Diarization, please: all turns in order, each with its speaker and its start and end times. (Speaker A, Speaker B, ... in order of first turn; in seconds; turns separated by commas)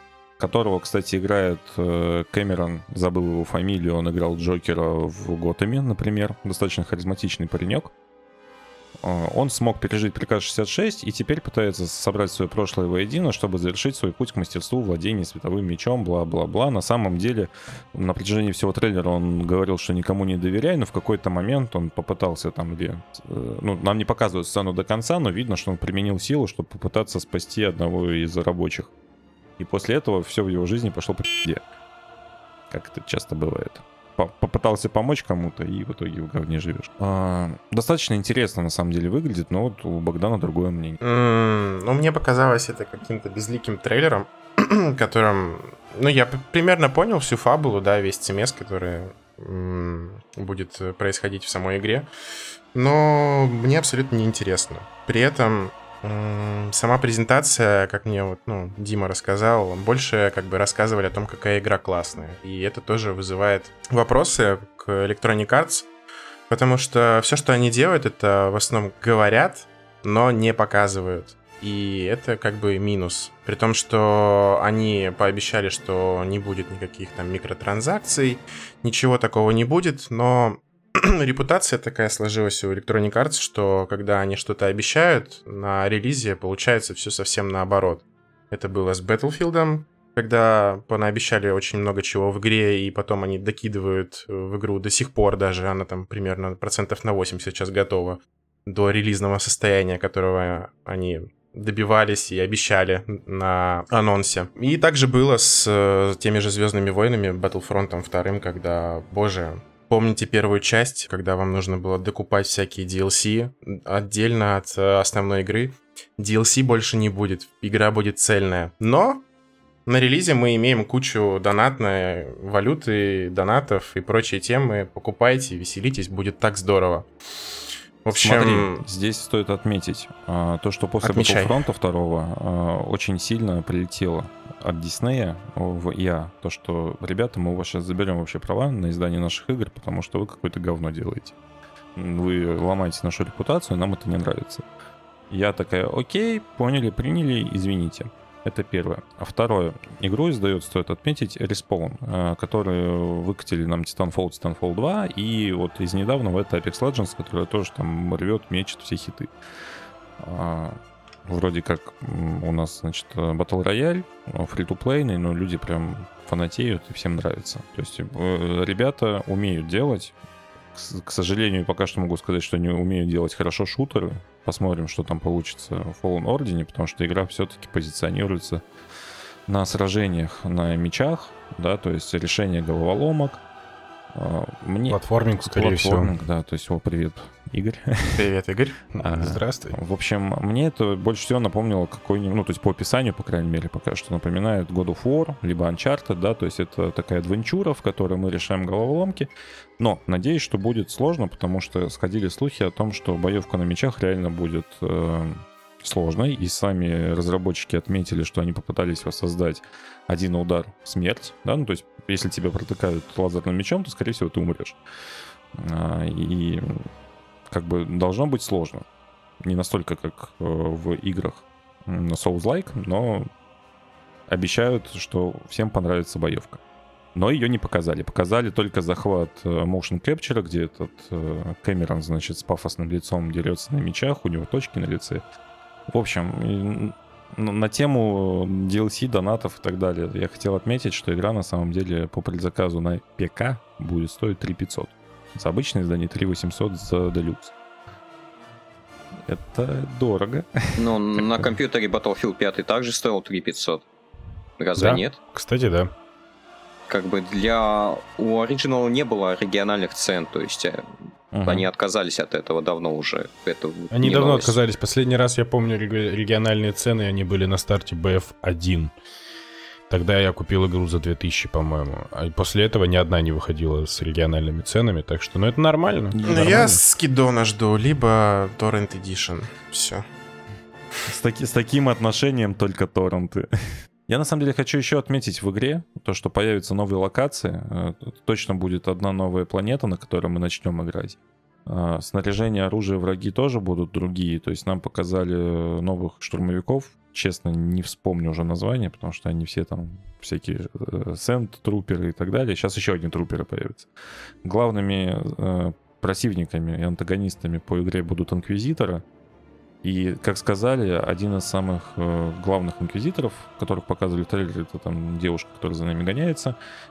Speaker A: 0.4-7.9, Speaker A: 9.0-28.9, Speaker A: 29.6-31.6, Speaker A: 32.7-41.0, Speaker B: 41.0-52.1, Speaker B: 52.7-65.9, Speaker B: 66.5-119.2, Speaker B: 119.8-127.1, Speaker B: 128.0-128.8, Speaker A: 128.1-141.3, Speaker B: 131.0-131.5, Speaker A: 141.9-144.7, Speaker A: 145.3-159.3, Speaker A: 160.2-170.1, Speaker A: 170.7-178.6, Speaker A: 179.5-183.4, Speaker A: 184.1-188.3, Speaker C: 184.9-186.1, Speaker B: 188.1-188.8, Speaker C: 188.9-189.8, Speaker A: 189.0-214.8, Speaker A: 215.5-216.9, Speaker A: 217.5-218.8, Speaker A: 219.4-223.3, Speaker A: 224.3-226.6, Speaker A: 227.1-235.2, Speaker A: 235.9-247.5, Speaker A: 249.2-251.5, Speaker D: 250.8-253.8, Speaker D: 254.6-255.2, Speaker C: 254.8-255.9, Speaker D: 256.9-260.8, Speaker A: 261.3-261.7, Speaker D: 261.4-264.6, Speaker C: 263.9-268.9, Speaker C: 269.9-276.8, Speaker A: 276.1-276.8, Speaker B: 276.2-280.1, Speaker A: 281.1-283.5, Speaker A: 284.1-303.9, Speaker A: 304.4-309.0, Speaker A: 309.8-316.6